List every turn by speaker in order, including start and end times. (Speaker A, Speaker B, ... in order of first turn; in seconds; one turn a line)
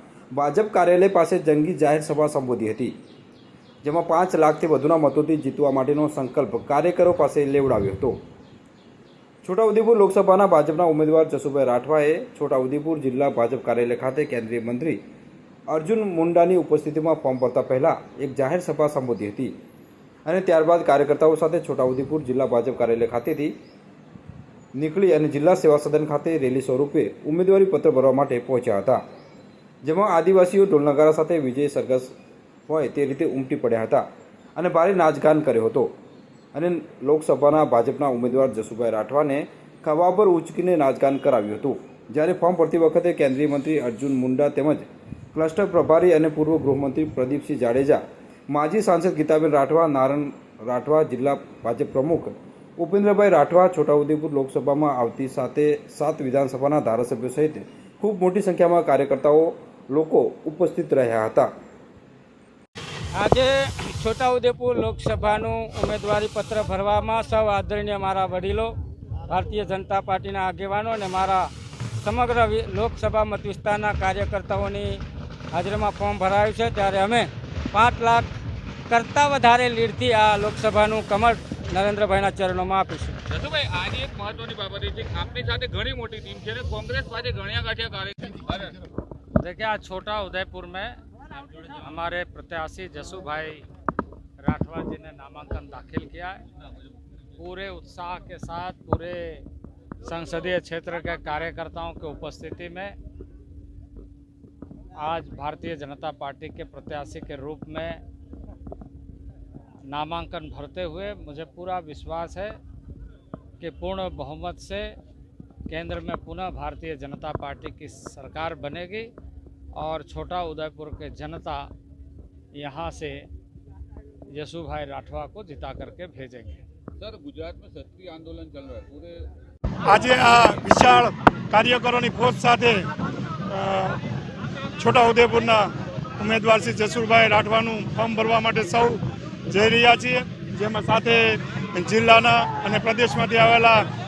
Speaker A: 0.3-2.9
Speaker A: 3.8-8.2
Speaker A: 9.4-15.0
Speaker A: 15.7-19.5
Speaker A: 20.2-23.5
Speaker A: 24.7-29.0
Speaker A: 29.8-32.1
Speaker A: 32.7-35.9
Speaker A: 36.5-61.5
Speaker B: 63.1-68.7
Speaker B: 69.3-78.3
Speaker B: 78.9-83.2
Speaker C: 83.3-88.8
Speaker B: 89.4-91.0
Speaker B: 91.5-93.7
Speaker B: 94.4-96.4
Speaker B: 97.4-99.4
Speaker B: 100.0-102.9
Speaker B: 105.0-108.0
Speaker B: 109.9-112.6
Speaker B: 113.6-114.9
Speaker B: 115.7-119.1
Speaker B: 119.7-121.7
Speaker B: 122.5-123.3
Speaker B: 124.3-126.6
Speaker C: 127.0-129.3
Speaker D: 129.8-132.9
Speaker D: 133.5-134.0
Speaker D: 134.8-143.8